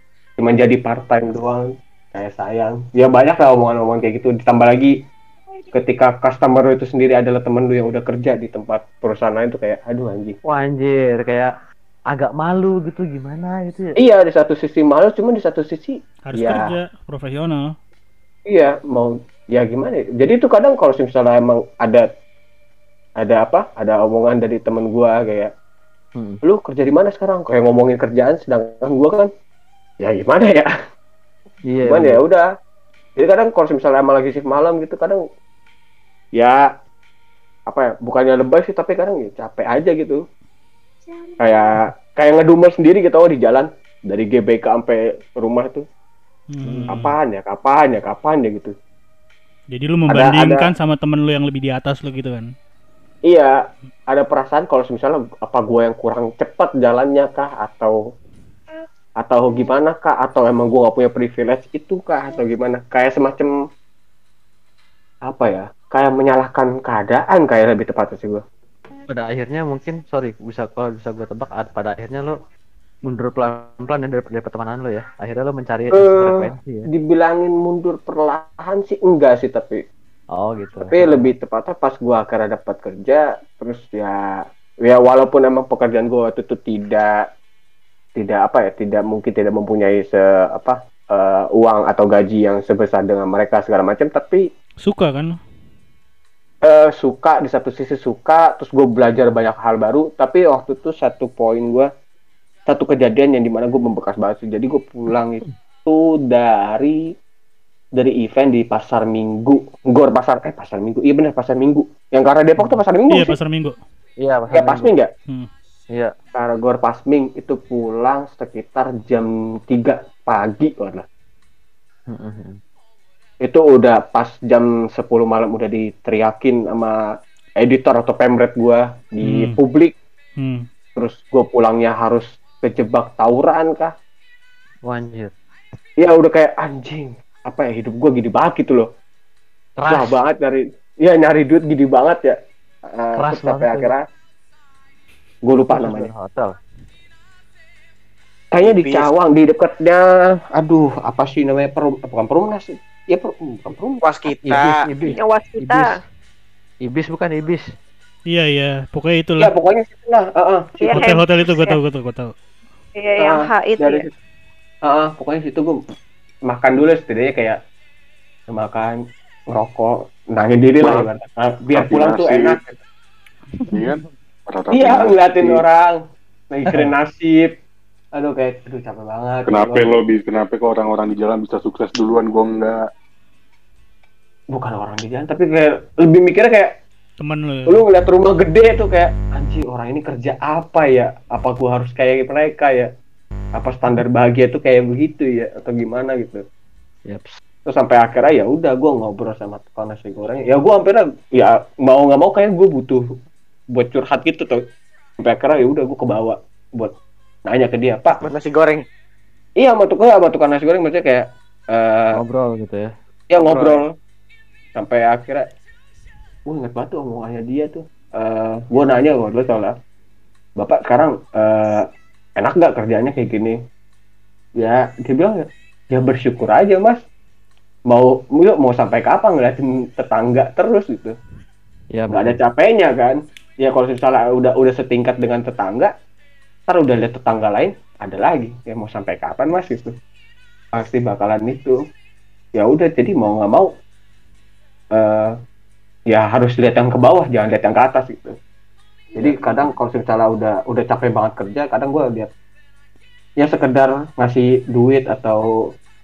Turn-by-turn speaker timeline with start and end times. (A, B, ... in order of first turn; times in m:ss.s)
0:00.4-0:05.0 A
0:05.7-0:10.4 A
0:10.5-0:11.5 B
0:12.1-0:14.0 B
0:14.0-0:16.7 A
0:16.3-0:17.7 C
0:18.5-0:22.1 A
0:23.2-0:25.5 A
0:26.4-0:29.3 A
0:30.0-0:30.7 A
0:31.7-0:32.2 B
0:31.8-0:32.4 A
0:33.2-0:35.2 A
0:36.4-0:36.6 A
0:37.7-0:40.2 A
0:41.4-0:45.8 A
0:46.5-0:47.1 C
0:46.6-0:47.0 B
0:46.9-0:48.7 A
0:49.7-0:52.5 C
0:50.1-0:50.7 A
0:54.1-0:58.0 A
0:59.2-1:03.5 A
1:05.3-1:08.4 A
1:09.1-1:12.3 B
1:13.0-1:16.9 B
1:15.9-1:19.8 A
1:20.3-1:21.3 B
1:20.8-1:24.2 A
1:24.8-1:27.2 A
1:28.2-1:34.4 A
1:34.8-1:35.4 C
1:36.6-1:41.9 A
1:42.7-1:47.0 A
1:48.0-1:53.4 A
1:53.1-1:53.7 C
1:54.2-1:54.9 B
1:54.5-1:55.1 A
1:56.4-2:01.0 A
2:02.1-2:02.6 B
2:03.4-2:07.0 A
2:07.6-2:09.9 A
2:09.2-2:09.6 C
2:10.4-2:10.6 C
2:11.0-2:13.9 A
2:14.8-2:15.3 B
2:16.0-2:18.9 A
2:19.8-2:20.2 B
2:19.9-2:22.4 A
2:22.9-2:24.0 A
2:23.2-2:23.9 B
2:25.4-2:26.1 A
2:25.7-2:26.6 B
2:28.5-2:30.0 A
2:28.6-2:29.1 D
2:30.5-2:34.0 A
2:34.0-2:34.8 D
2:34.4-2:35.9 B
2:35.1-2:36.0 E
2:36.8-2:37.6 B
2:38.3-2:39.5 C
2:39.4-2:41.0 A
2:40.8-2:41.8 E
2:40.9-2:42.3 C
2:42.9-2:44.1 E
2:43.2-2:44.1 A
2:44.8-2:45.8 A
2:46.5-2:47.6 A
2:48.5-2:49.0 A
2:49.5-2:52.8 A
2:51.7-2:52.6 F
2:53.6-2:54.1 B
2:53.7-2:55.6 F
2:54.7-2:56.0 A
2:56.5-2:57.5 A
2:58.2-2:59.9 A
2:59.5-3:02.7 F
3:04.5-3:06.7 A
3:07.2-3:07.8 C
3:07.7-3:12.9 A
3:13.6-3:16.4 A
3:17.0-3:17.4 B
3:17.7-3:23.0 A
3:23.7-3:24.6 A
3:25.2-3:26.9 A
3:27.5-3:28.3 A
3:28.2-3:28.8 D
3:29.6-3:32.2 A
3:32.1-3:33.8 B
3:33.3-3:33.9 A
3:34.8-3:35.4 A
3:36.4-3:39.8 A
3:40.6-3:43.6 A
3:44.6-3:47.0 A
3:47.9-3:51.2 A
3:51.9-3:52.4 B
3:52.1-3:55.9 A
3:56.7-3:59.9 A
4:00.7-4:01.8 A
4:02.6-4:03.7 A
4:05.0-4:05.3 A
4:06.1-4:08.4 A
4:09.1-4:09.8 B
4:09.2-4:12.3 A
4:13.4-4:15.4 A